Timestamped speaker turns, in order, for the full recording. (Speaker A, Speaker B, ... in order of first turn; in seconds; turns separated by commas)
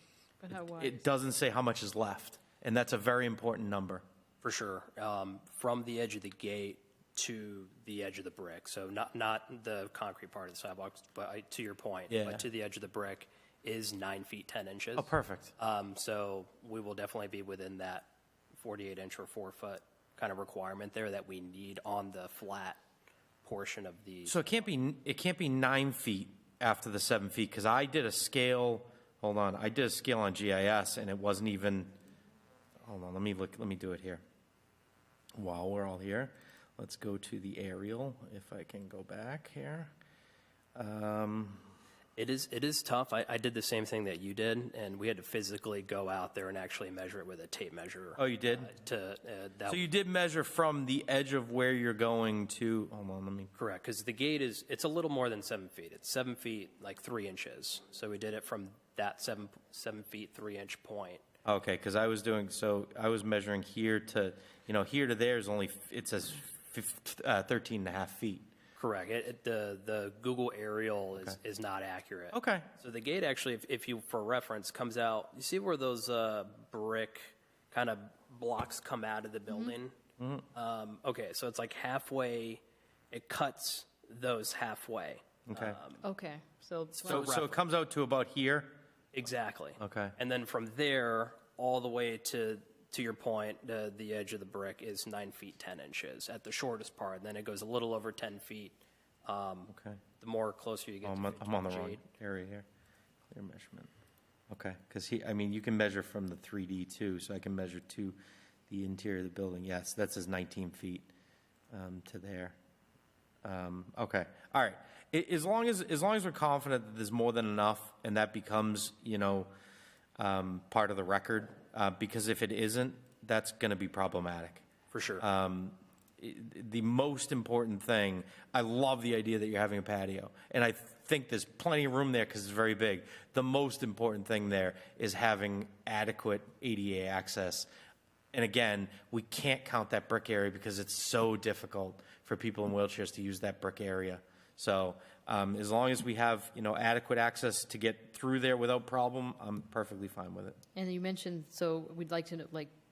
Speaker A: 0.4-1.1, Speaker B: 0.5-4.0, Speaker C: 4.4-22.8, Speaker B: 12.1-12.5, Speaker B: 15.0-15.5, Speaker C: 23.4-24.4, Speaker B: 24.3-32.0, Speaker B: 32.9-34.2, Speaker B: 35.4-39.9, Speaker B: 40.8-41.6, Speaker C: 42.2-49.8, Speaker B: 48.2-48.7, Speaker B: 49.7-53.5, Speaker C: 53.5-61.2, Speaker B: 61.5-68.5, Speaker C: 68.8-80.0, Speaker B: 72.3-72.7, Speaker A: 79.5-79.8, Speaker B: 80.2-80.5, Speaker C: 80.5-82.6, Speaker C: 83.1-86.0, Speaker B: 85.5-85.8, Speaker A: 86.0-87.4, Speaker C: 87.0-87.6, Speaker B: 87.0-88.8, Speaker C: 89.1-102.0, Speaker B: 89.8-90.2, Speaker B: 99.7-100.0, Speaker B: 101.0-102.7, Speaker B: 103.3-103.9, Speaker B: 104.5-108.2, Speaker B: 108.7-111.1, Speaker B: 111.7-112.5, Speaker B: 113.4-119.5, Speaker B: 120.2-124.7, Speaker C: 124.9-125.2, Speaker B: 125.2-137.7, Speaker B: 138.3-150.6, Speaker A: 150.8-152.7